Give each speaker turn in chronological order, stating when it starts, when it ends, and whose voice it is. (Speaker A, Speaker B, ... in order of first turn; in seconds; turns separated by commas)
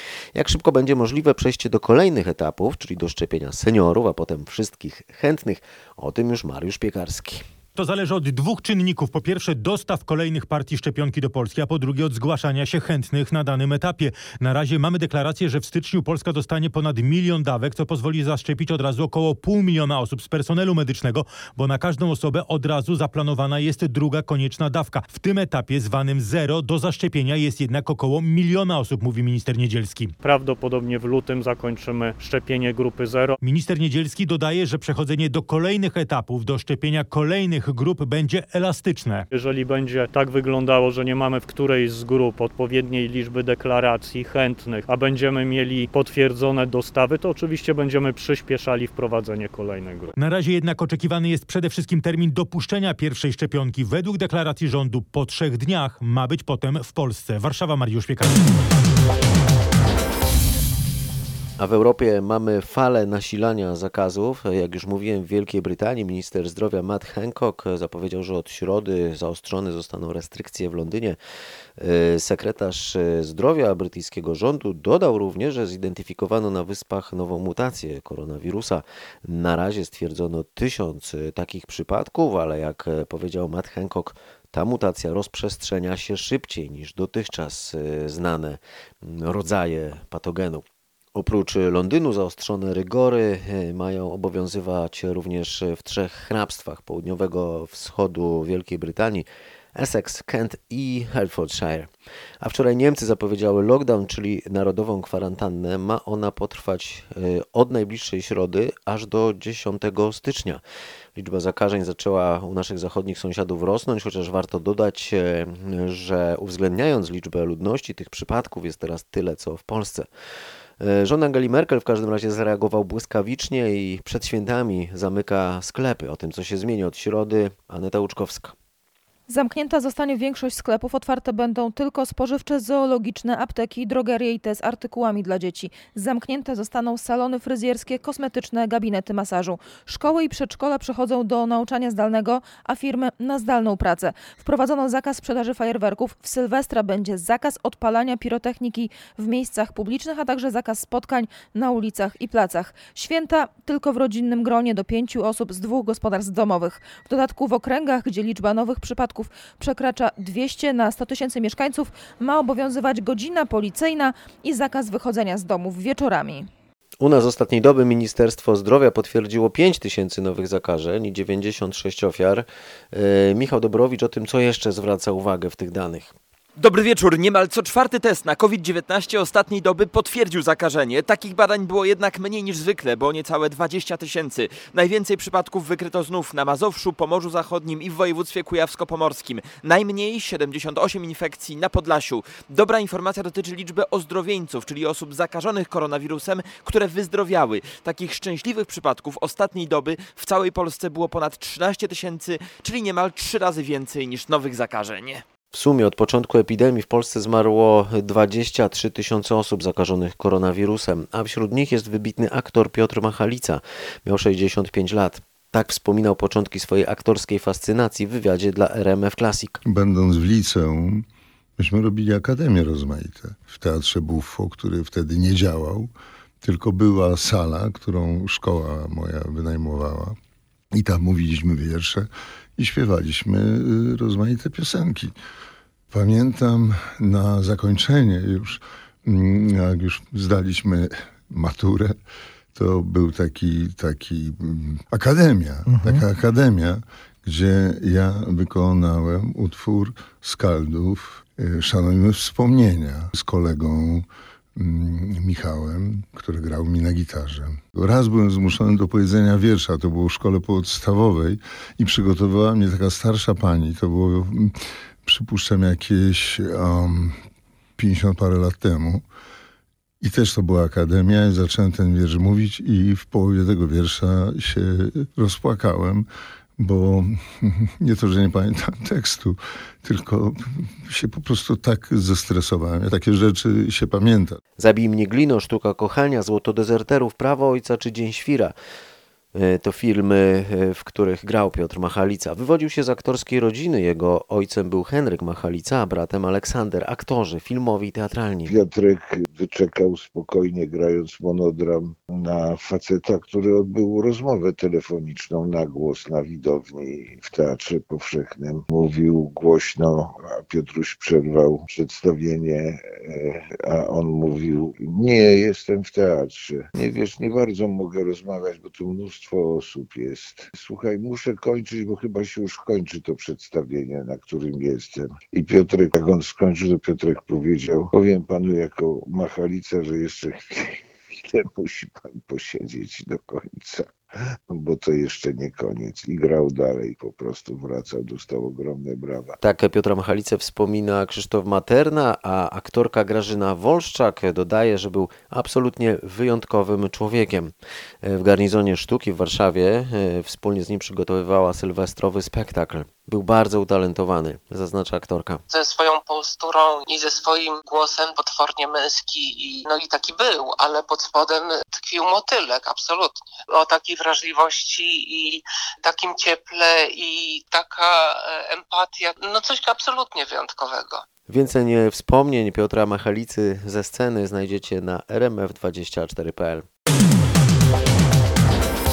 Speaker A: 0.3-7.4, Speaker B: 7.8-30.1, Speaker C: 30.2-33.4, Speaker B: 33.4-39.2, Speaker C: 39.3-50.1, Speaker B: 50.2-58.4, Speaker A: 61.6-71.2, Speaker A: 71.8-101.9, Speaker A: 102.4-110.6, Speaker A: 111.2-120.1, Speaker A: 120.8-128.5, Speaker D: 129.3-166.5, Speaker A: 167.0-176.1, Speaker E: 176.6-205.2, Speaker A: 205.5-219.6, Speaker F: 219.6-221.1, Speaker F: 221.6-230.2, Speaker F: 230.7-235.1, Speaker F: 235.9-241.9, Speaker F: 242.5-267.2, Speaker F: 267.8-269.0, Speaker F: 270.0-276.1, Speaker F: 276.6-284.4, Speaker A: 284.6-288.5, Speaker A: 289.3-298.5, Speaker G: 298.5-334.0, Speaker G: 334.5-339.4, Speaker A: 339.4-355.4, Speaker H: 355.5-371.0, Speaker A: 371.3-376.6